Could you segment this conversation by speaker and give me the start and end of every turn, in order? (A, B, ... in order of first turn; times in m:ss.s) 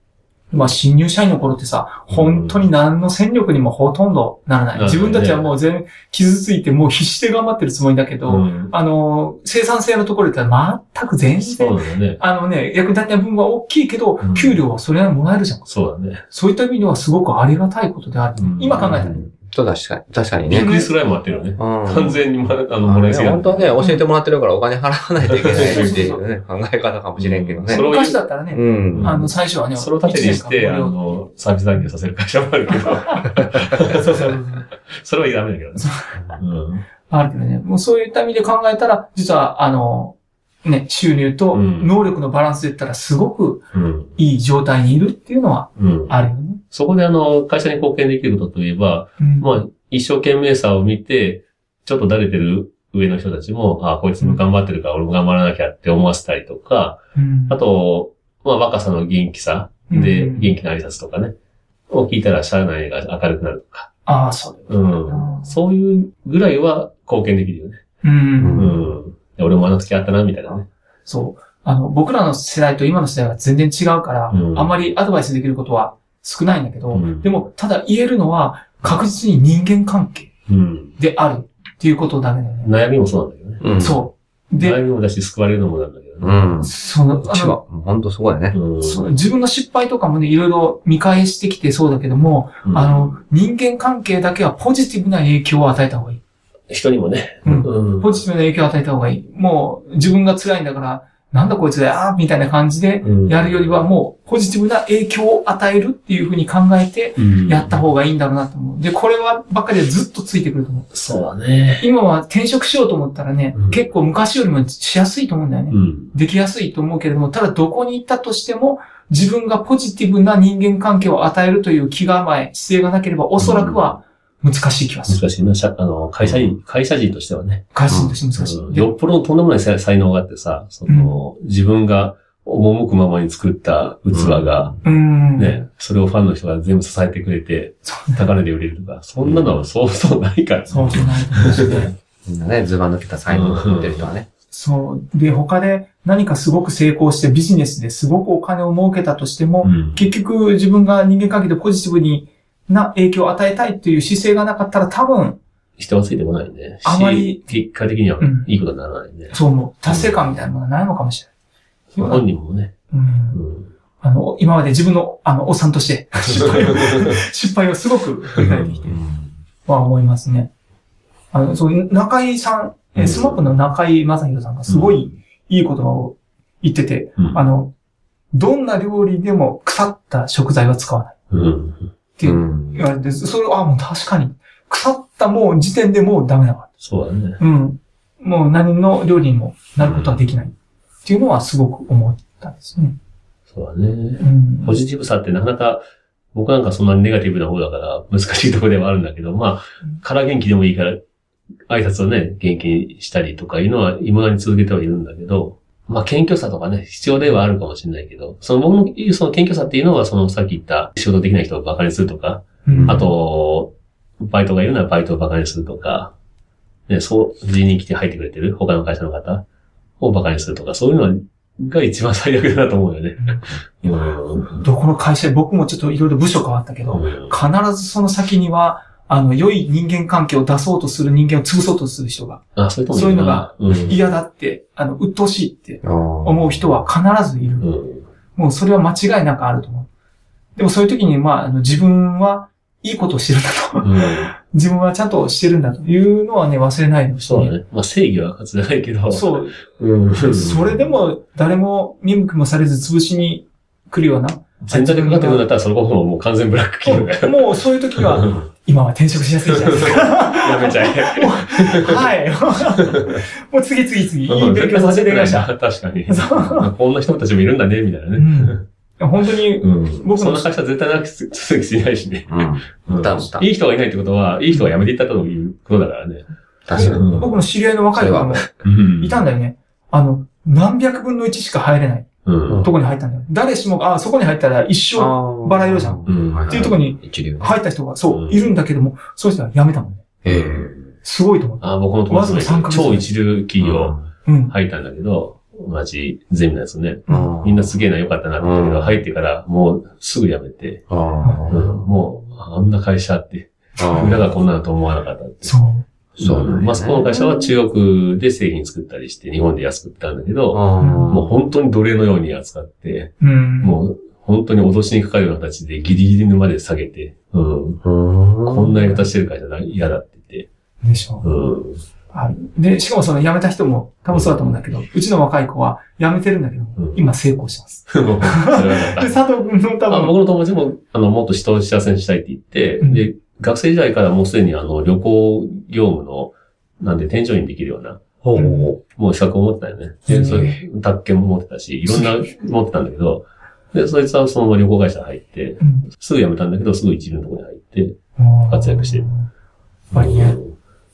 0:00.5-0:15.7 A
0:02.1-0:02.6 B
0:04.7-0:05.5 B
0:08.2-0:08.7 B
0:11.4-0:12.2 B
0:14.2-0:14.6 B
0:15.7-0:16.2 B
0:16.3-0:19.2 A
0:18.4-0:19.0 B
0:18.8-0:20.7 C
0:20.5-0:23.7 B
0:20.5-0:20.9 A
0:21.6-0:22.2 C
0:22.8-0:27.9 C
0:25.3-0:26.0 B
0:25.5-0:26.2 A
0:27.2-0:28.2 B
0:27.7-0:31.0 A
0:28.5-0:29.3 C
0:28.9-0:36.8 B
0:35.8-0:36.1 A
0:37.1-0:43.6 A
0:41.5-0:42.1 B
0:43.7-0:44.2 B
0:44.2-0:46.6 A
0:45.8-1:01.3 B
0:49.2-0:49.5 A
0:57.2-0:57.6 A
0:59.9-1:00.5 A
1:01.9-1:03.9 B
1:04.0-1:05.5 A
1:04.7-1:07.8 B
1:08.0-1:08.8 A
1:08.4-1:08.8 C
1:08.5-1:10.7 B
1:11.0-1:20.3 A
1:14.3-1:14.7 B
1:16.9-1:17.3 B
1:20.5-1:21.0 B
1:21.0-1:22.7 A
1:22.6-1:23.7 B
1:23.6-1:24.0 C
1:23.8-1:24.8 A
1:24.6-1:26.5 B
1:26.2-1:28.6 C
1:26.6-1:27.6 A
1:28.5-1:29.1 B
1:28.8-1:36.2 A
1:32.6-1:33.2 B
1:36.7-1:38.2 B
1:37.4-1:50.9 A
1:43.0-1:43.8 B
1:47.2-1:47.8 B
1:50.9-1:51.9 B
1:51.8-2:05.2 A
1:53.5-1:53.8 B
1:55.7-1:56.1 B
2:03.4-2:03.9 B
2:05.1-2:07.7 B
2:06.2-2:06.5 C
2:07.7-2:08.9 A
2:07.9-2:08.2 C
2:08.4-2:14.8 B
2:10.9-2:11.2 A
2:14.1-2:14.8 C
2:14.8-2:15.6 A
2:15.4-2:21.9 B
2:17.8-2:18.3 A
2:19.2-2:19.6 C
2:20.7-2:21.9 A
2:20.9-2:24.3 C
2:23.3-2:24.1 B
2:24.5-2:35.4 A
2:29.6-2:30.1 B
2:35.8-2:39.4 B
2:36.8-2:37.5 A
2:38.2-2:38.5 A
2:39.3-2:41.3 A
2:39.9-2:40.2 B
2:41.9-2:42.2 A
2:42.0-2:42.7 B
2:42.9-2:43.4 A
2:43.3-2:43.7 B
2:44.0-2:49.0 A
2:46.2-2:47.2 B
2:48.4-2:48.8 B
2:48.9-2:49.3 C
2:49.6-2:50.5 A
2:51.3-2:57.7 A
2:53.0-2:53.4 B
2:54.7-2:55.0 B
2:58.3-3:01.2 A
3:01.3-3:01.9 B
3:02.2-3:06.7 A
3:02.2-3:02.8 C
3:06.8-3:07.4 B
3:07.4-3:10.5 A
3:09.8-3:10.2 B
3:11.0-3:13.0 A
3:13.5-3:21.0 B
3:14.2-3:14.8 A
3:21.7-3:36.1 B
3:32.6-3:33.1 A
3:32.7-3:33.1 C
3:36.9-3:39.4 B
3:40.0-3:44.6 B
3:43.2-3:43.4 A
3:44.5-3:57.7 A
3:46.9-3:47.3 B
3:52.6-3:54.0 B
3:55.8-3:56.8 C
3:57.6-3:58.0 B
3:58.4-3:59.9 A
4:00.6-4:07.5 A
4:03.8-4:04.3 B
4:07.2-4:10.9 B
4:09.1-4:09.5 A
4:10.1-4:15.4 A
4:14.6-4:18.5 B
4:16.8-4:25.5 A
4:19.5-4:22.1 B
4:22.9-4:23.2 B
4:24.3-4:28.6 B
4:26.1-4:26.7 A
4:28.2-4:30.5 A
4:29.6-4:37.4 B
4:32.3-4:33.4 C
4:36.6-4:37.3 C
4:36.7-4:38.5 A
4:38.0-4:38.5 C
4:38.6-4:39.2 B
4:39.0-4:42.1 A
4:42.2-4:42.6 B
4:42.6-4:50.0 A
4:45.0-4:47.6 C
4:46.0-4:46.8 B
4:48.1-4:48.5 B
4:50.2-4:50.7 C
4:50.2-4:50.9 B
4:51.0-4:53.1 A
4:51.6-4:54.0 B
4:53.6-4:54.1 C
4:54.2-4:54.5 A
4:54.5-5:00.8 B
4:57.1-4:57.3 A
4:57.1-4:57.8 C
4:58.4-4:59.0 C
5:00.9-5:01.8 C
5:01.2-5:01.5 A
5:01.5-5:05.5 B
5:03.8-5:04.2 C
5:05.4-5:05.8 A
5:06.2-5:07.1 C
5:06.2-5:17.8 B
5:10.5-5:11.4 C
5:10.8-5:11.2 A
5:13.2-5:13.8 A
5:17.8-5:18.8 C
5:18.4-5:20.5 B
5:20.8-5:21.2 A
5:21.2-5:21.8 B
5:22.1-5:30.1 A
5:24.1-5:24.4 B
5:26.8-5:27.1 B
5:27.9-5:29.2 B
5:29.9-5:38.0 B
5:38.2-5:38.8 C
5:38.3-5:38.7 A
5:38.9-5:48.0 B
5:40.1-5:40.6 A
5:41.9-5:42.2 A
5:45.6-5:45.8 A
5:48.2-5:49.3 A
5:48.5-5:49.1 B
5:49.9-5:50.5 B
5:49.9-5:50.4 A